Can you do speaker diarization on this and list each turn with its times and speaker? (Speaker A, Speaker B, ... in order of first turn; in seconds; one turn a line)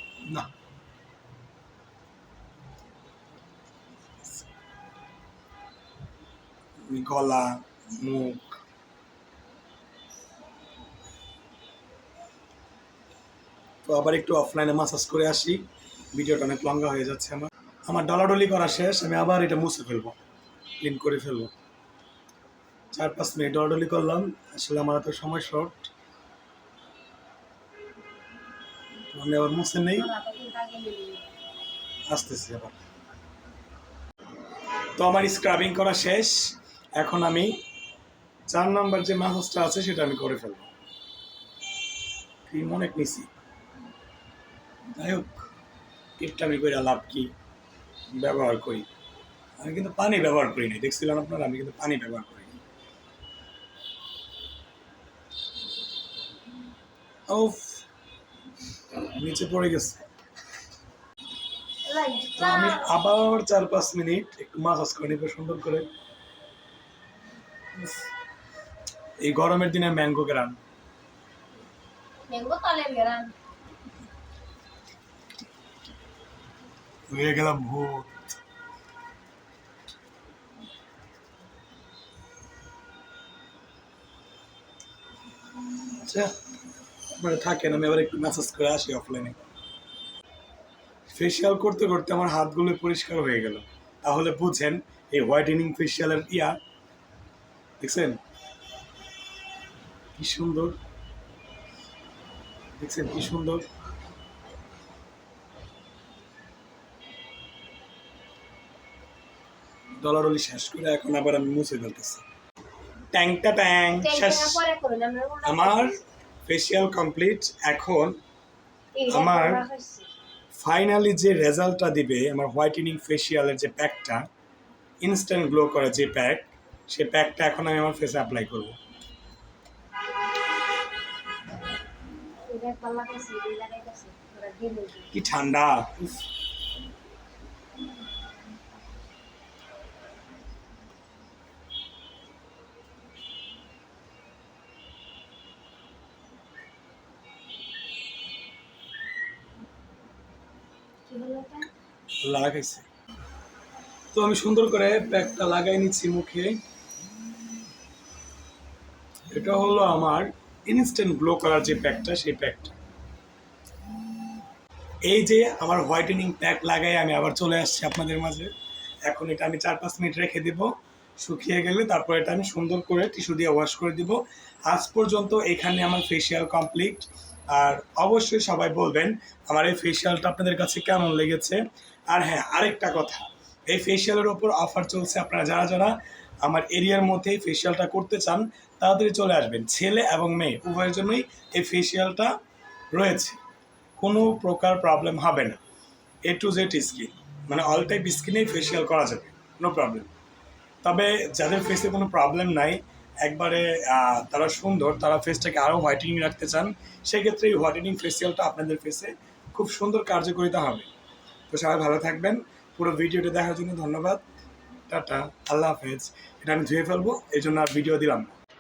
Speaker A: 6.9-8.6
Speaker A: 13.8-20.2
Speaker A: 20.8-21.5
Speaker A: 22.9-25.9
Speaker A: 29.1-30.1
Speaker B: 30.0-31.3
Speaker A: 32.1-32.8
Speaker A: 35.0-37.6
Speaker A: 38.5-40.7
Speaker A: 42.5-43.3
Speaker A: 45.0-45.5
Speaker A: 46.2-47.3
Speaker A: 48.2-48.9
Speaker A: 49.6-52.6
Speaker A: 57.3-57.8
Speaker A: 59.1-60.0
Speaker B: 61.9-62.9
Speaker A: 62.4-65.9
Speaker A: 67.8-68.0
Speaker A: 69.2-70.6
Speaker B: 72.3-73.3
Speaker A: 77.1-78.3
Speaker A: 86.0-86.3
Speaker A: 87.2-89.4
Speaker A: 91.1-96.6
Speaker A: 97.8-98.2
Speaker A: 100.2-100.8
Speaker A: 102.8-103.7
Speaker A: 110.0-112.2
Speaker A: 113.1-114.6
Speaker B: 114.0-116.0
Speaker A: 115.5-116.0
Speaker A: 116.5-118.2
Speaker B: 119.0-120.1
Speaker A: 119.1-119.6
Speaker A: 120.6-124.2
Speaker A: 125.0-128.8
Speaker B: 132.5-135.1
Speaker A: 135.1-136.1
Speaker B: 151.1-151.7
Speaker A: 152.2-152.9
Speaker A: 154.1-156.6
Speaker A: 159.3-162.7
Speaker A: 165.1-168.5
Speaker A: 169.1-181.6
Speaker A: 182.1-192.3
Speaker A: 192.9-193.4
Speaker A: 194.0-195.6
Speaker A: 196.3-200.1
Speaker A: 200.8-210.9
Speaker A: 211.5-214.2
Speaker A: 214.9-218.3